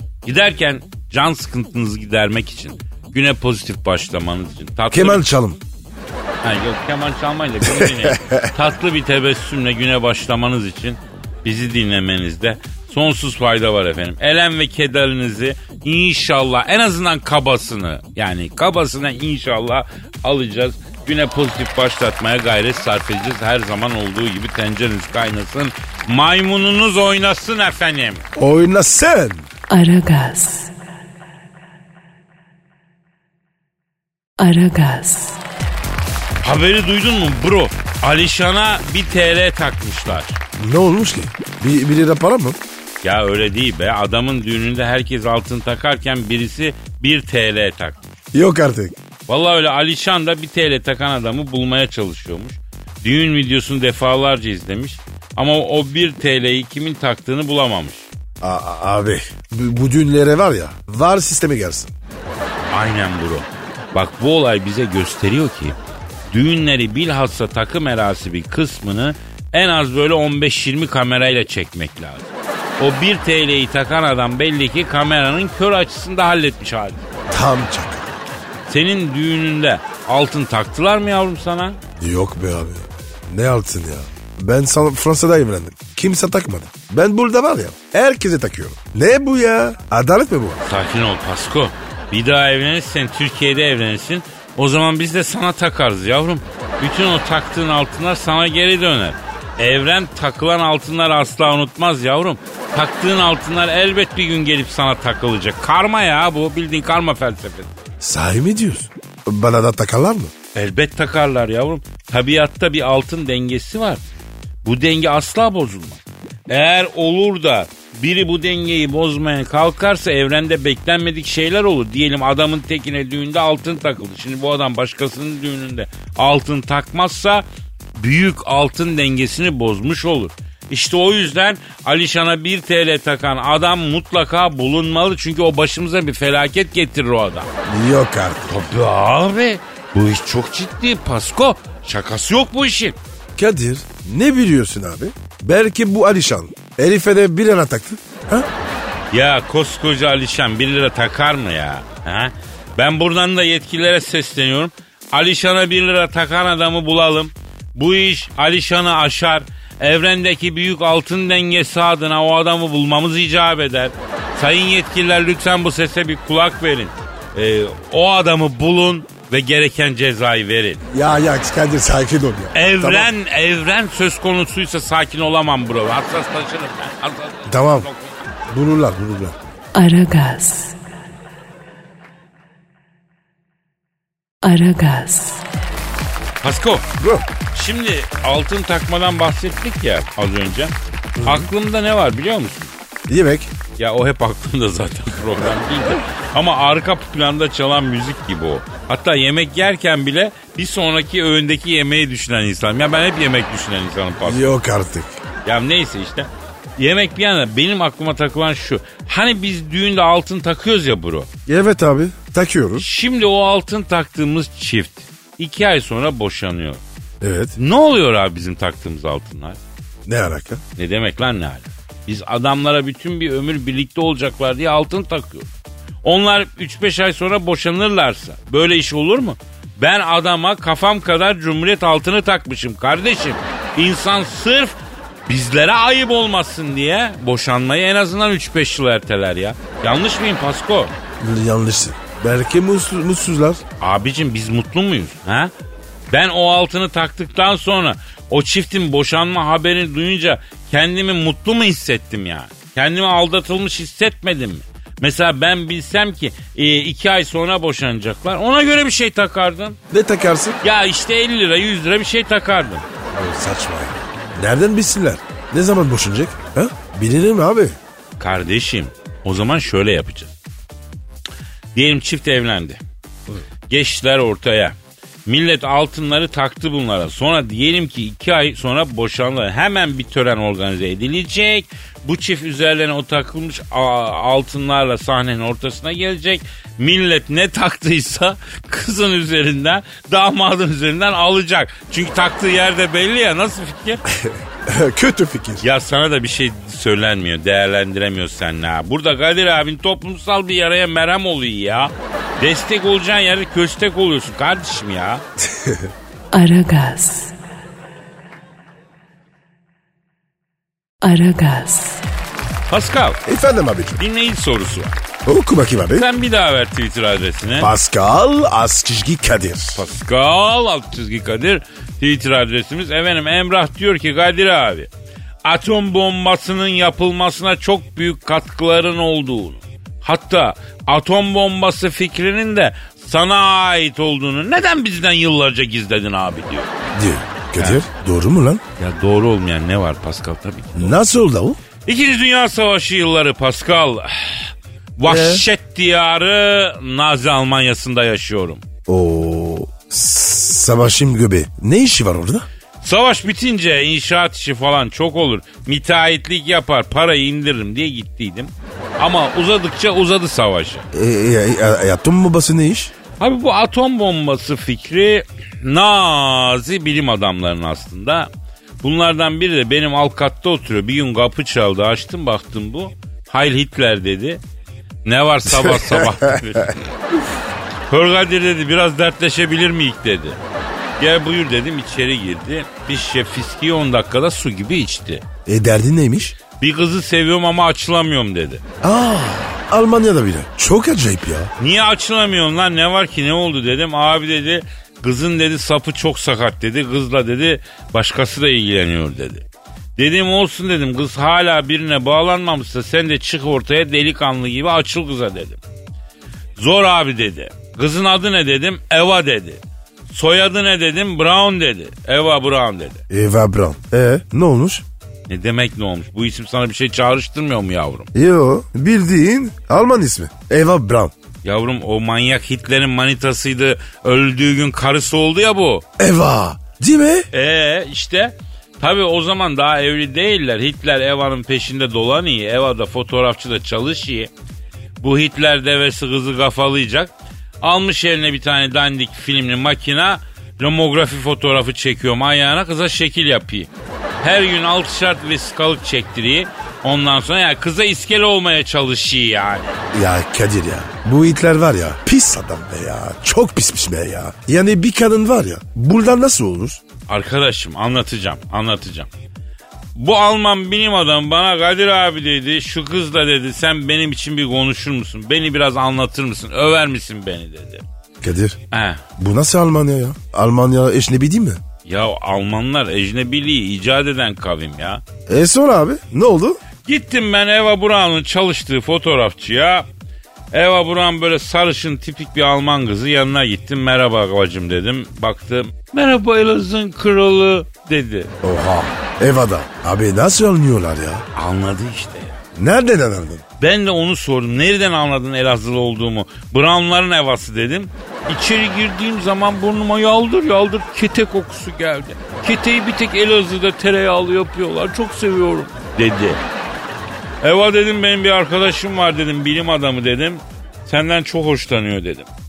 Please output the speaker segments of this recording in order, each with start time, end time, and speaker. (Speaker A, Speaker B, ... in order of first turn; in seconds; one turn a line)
Speaker A: 0.2-5.3
Speaker B: 4.9-5.6
Speaker A: 6.4-28.2
Speaker B: 7.6-8.5
Speaker B: 28.4-29.4
Speaker C: 29.7-30.7
Speaker C: 34.4-35.4
Speaker A: 36.4-40.4
Speaker B: 40.6-42.6
Speaker A: 43.0-48.0
Speaker B: 48.3-49.0
Speaker A: 49.3-58.1
Speaker B: 58.4-61.9
Speaker A: 62.7-65.8
Speaker A: 66.3-77.0
Speaker B: 77.3-78.2
Speaker A: 78.7-81.8
Speaker B: 82.0-90.6
Speaker A: 90.6-107.9
Speaker B: 108.0-110.3
Speaker A: 110.5-114.0
Speaker A: 114.6-137.5
Speaker B: 137.7-138.6
Speaker A: 138.5-143.0
Speaker B: 143.4-148.5
Speaker A: 149.1-170.8
Speaker B: 170.9-173.1
Speaker A: 172.5-178.2
Speaker B: 177.5-177.9
Speaker B: 178.5-179.4
Speaker C: 179.8-180.8
Speaker C: 184.4-185.4
Speaker A: 186.4-186.9
Speaker B: 187.0-187.3
Speaker A: 187.5-192.7
Speaker B: 191.2-191.5
Speaker B: 193.1-193.5
Speaker A: 193.8-204.5
Speaker B: 204.2-205.2
Speaker A: 205.4-211.3
Speaker B: 211.5-212.9
Speaker A: 212.8-216.8
Speaker B: 217.2-217.6
Speaker A: 217.6-219.6
Speaker B: 220.1-220.6
Speaker A: 220.8-225.5
Speaker A: 226.0-240.9
Speaker B: 241.2-243.6
Speaker A: 243.8-245.5
Speaker A: 246.1-259.8
Speaker B: 259.9-260.6
Speaker A: 260.6-262.9
Speaker B: 263.1-267.8
Speaker A: 268.2-270.3
Speaker A: 271.8-272.8
Speaker A: 273.7-294.0
Speaker B: 294.1-295.6
Speaker A: 295.6-305.2
Speaker B: 305.4-305.9
Speaker C: 306.3-307.4
Speaker C: 311.0-312.0
Speaker A: 312.7-313.2
Speaker B: 313.2-314.0
Speaker A: 314.0-315.0
Speaker B: 315.3-316.1
Speaker A: 315.9-317.7
Speaker B: 317.6-319.8
Speaker A: 319.8-324.9
Speaker A: 325.4-336.7
Speaker B: 336.9-338.6
Speaker A: 337.6-337.8
Speaker A: 338.8-341.0
Speaker B: 340.8-341.6
Speaker A: 341.9-348.6
Speaker B: 345.1-345.4
Speaker B: 348.9-352.5
Speaker A: 352.8-360.9
Speaker B: 360.9-362.9
Speaker A: 363.2-368.3
Speaker A: 368.8-374.4
Speaker A: 375.1-376.9
Speaker B: 375.5-376.3
Speaker A: 377.9-380.4
Speaker A: 381.0-385.2
Speaker B: 385.5-386.4
Speaker A: 386.6-388.6
Speaker B: 388.8-391.5
Speaker A: 391.6-399.5
Speaker A: 400.0-405.6
Speaker A: 406.6-413.0
Speaker B: 413.1-414.9
Speaker A: 415.3-418.1
Speaker B: 418.1-421.1
Speaker A: 421.4-425.9
Speaker B: 426.0-427.3
Speaker A: 427.3-434.3
Speaker A: 435.0-443.7
Speaker A: 444.2-449.8
Speaker B: 449.9-456.8
Speaker A: 457.1-459.1
Speaker A: 459.9-467.8
Speaker B: 468.2-468.6
Speaker A: 468.7-469.0
Speaker B: 469.2-471.6
Speaker A: 471.9-475.0
Speaker B: 475.3-476.6
Speaker A: 476.9-479.9
Speaker A: 480.5-488.3
Speaker B: 488.4-491.2
Speaker A: 491.3-492.4
Speaker B: 492.6-493.4
Speaker A: 493.6-506.4
Speaker A: 507.4-512.3